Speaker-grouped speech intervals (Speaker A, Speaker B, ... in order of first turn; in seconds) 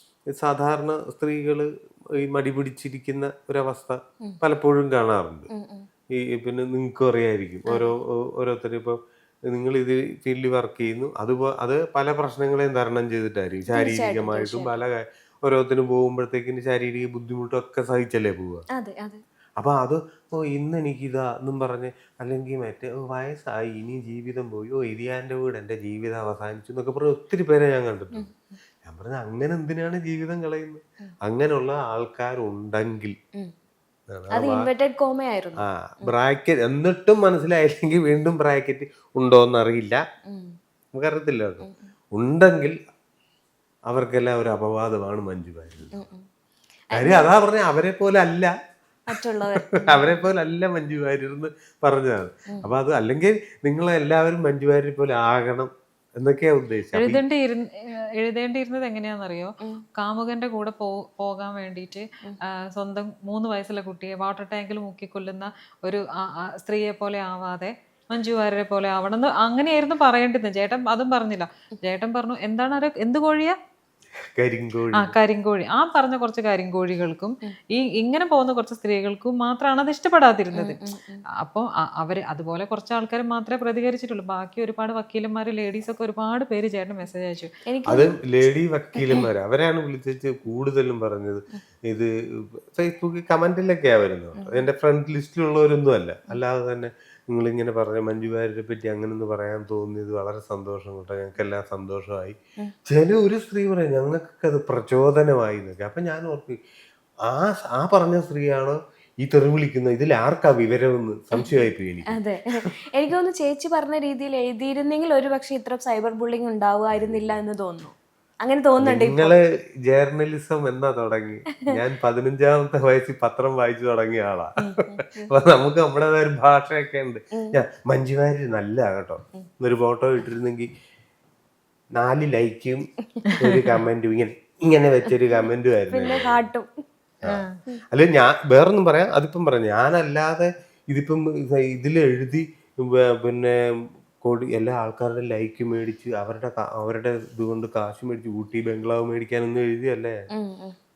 Speaker A: 0.4-1.7, 2.2-5.5, 6.2-18.6, 19.6-28.3, 28.9-33.1, 34.1-34.7, 35.6-40.0, 41.0-42.8, 43.9-46.0, 47.0-48.5, 49.5-57.2, 74.4-75.2, 87.9-92.1, 92.7-102.4, 102.9-106.6, 107.3-112.2, 117.0-117.3, 118.8-124.7, 125.3-130.7, 132.0-132.8, 133.4-136.4, 137.9-143.6, 144.2-150.2
Speaker B: 5.5-5.9, 13.7-14.7, 18.7-19.2, 34.3-36.1, 40.3-40.6, 45.9-46.2, 46.9-47.3, 49.1-50.2, 80.5-81.2, 87.7-89.3, 94.4-94.6, 111.3-119.4, 124.6-125.3, 135.9-136.8, 150.3-150.8
Speaker C: 57.0-57.6, 58.2-62.1, 62.7-73.5, 75.0-80.8, 81.4-87.5, 137.3-137.5